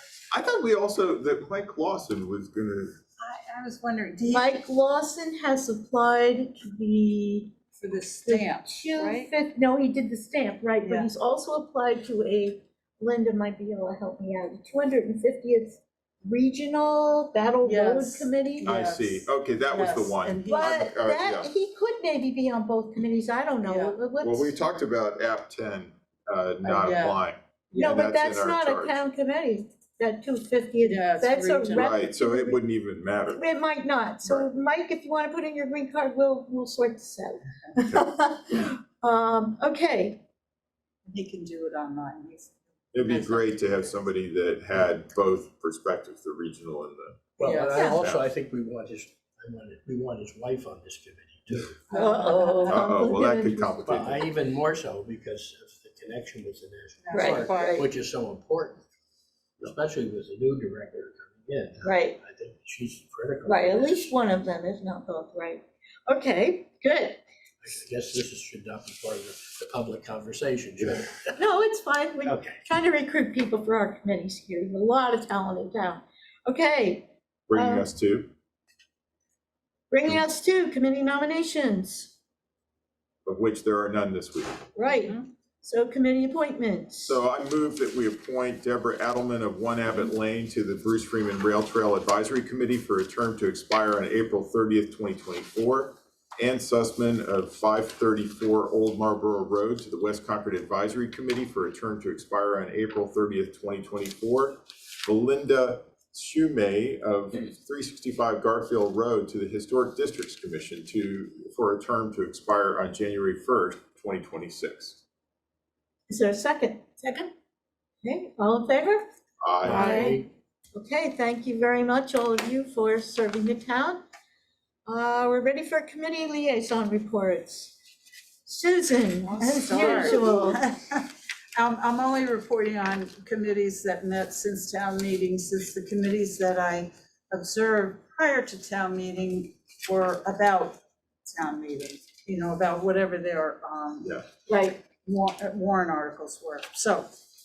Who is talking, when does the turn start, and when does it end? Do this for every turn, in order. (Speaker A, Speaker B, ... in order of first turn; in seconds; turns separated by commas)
Speaker A: 0.3-2.9, Speaker B: 3.2-4.6, Speaker C: 4.2-7.7, Speaker B: 7.8-9.3, Speaker C: 8.2-18.7, Speaker B: 10.8-11.1, Speaker B: 17.6-20.9, Speaker A: 18.6-21.5, Speaker C: 20.5-24.7, Speaker B: 23.6-24.0, Speaker A: 24.2-29.0, Speaker B: 26.6-27.2, Speaker B: 27.7-28.0, Speaker C: 27.8-32.6, Speaker B: 30.8-31.9, Speaker A: 31.8-33.4, Speaker C: 33.3-40.2, Speaker B: 41.0-43.9, Speaker A: 42.9-47.3, Speaker D: 47.4-51.8, Speaker B: 47.4-47.9, Speaker C: 47.7-48.0, Speaker A: 47.9-48.2, Speaker B: 51.9-52.9, Speaker C: 51.9-54.1, Speaker A: 52.7-54.3, Speaker D: 53.8-58.8, Speaker B: 57.0-57.8, Speaker C: 57.1-57.9, Speaker D: 59.6-64.2, Speaker C: 61.8-62.2, Speaker C: 63.5-67.2, Speaker D: 67.6-71.4, Speaker C: 71.4-77.9, Speaker D: 72.2-72.6, Speaker A: 77.5-78.3, Speaker C: 79.9-82.1, Speaker A: 83.2-84.7, Speaker C: 84.7-87.2, Speaker B: 84.8-85.3, Speaker A: 87.0-115.0, Speaker C: 116.1-117.3, Speaker C: 118.0-119.0, Speaker A: 119.4-119.9, Speaker D: 119.6-120.3, Speaker C: 119.7-120.2, Speaker C: 120.7-124.0, Speaker C: 124.8-127.8, Speaker C: 128.4-130.6, Speaker B: 129.2-144.1, Speaker C: 144.5-144.8, Speaker B: 144.8-147.1